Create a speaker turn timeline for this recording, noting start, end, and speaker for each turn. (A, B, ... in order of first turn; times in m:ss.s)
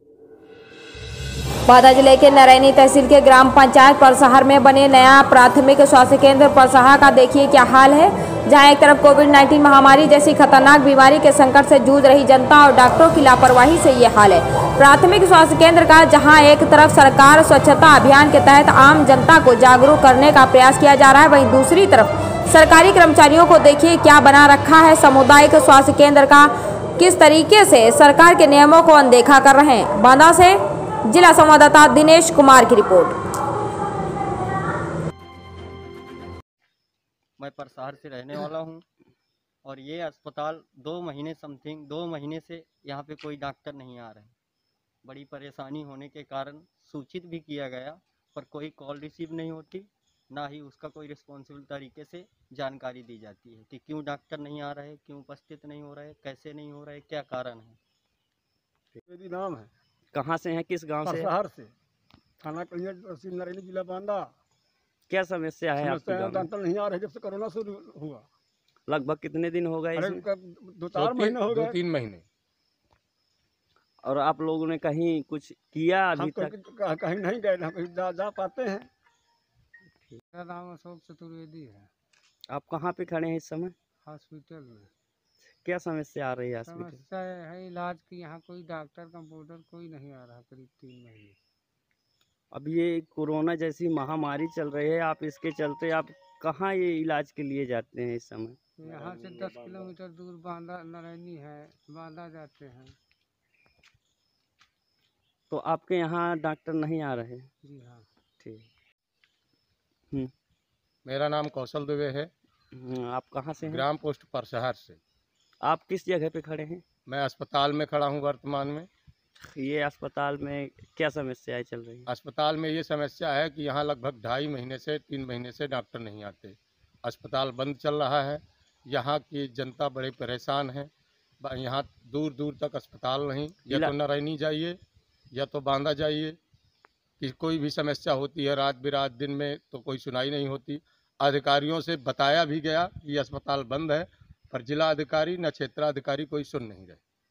0:01.7-0:33.2 A
0:37.4-0:38.8 B
0:39.6-0:44.4 B
0:45.0-0:57.8 B
0:59.0-0:59.7 C
1:00.1-1:01.3 D
1:01.0-1:01.7 C
1:02.4-1:04.3 C
1:05.1-1:06.5 D
1:05.8-1:08.2 C
1:08.9-1:10.2 D
1:10.0-1:11.8 C
1:11.0-1:12.2 E
1:14.0-1:16.5 D
1:16.2-1:18.9 C
1:20.3-1:21.9 F
1:22.5-1:23.7 D
1:24.1-1:24.9 F
1:25.6-1:27.0 D
1:26.6-1:31.4 F
1:32.5-1:38.6 D
1:38.8-1:43.0 F
1:38.9-1:39.8 C
1:45.5-1:47.5 D
1:47.6-1:48.0 F
1:48.4-1:48.7 D
1:51.0-1:52.3 E
1:52.7-1:53.8 D
1:53.6-1:55.0 E
1:55.6-1:56.8 D
1:57.1-1:58.9 E
1:59.6-2:02.0 D
2:02.1-2:10.9 E
2:11.4-2:14.8 E
2:15.3-2:16.4 E
2:17.2-2:27.0 E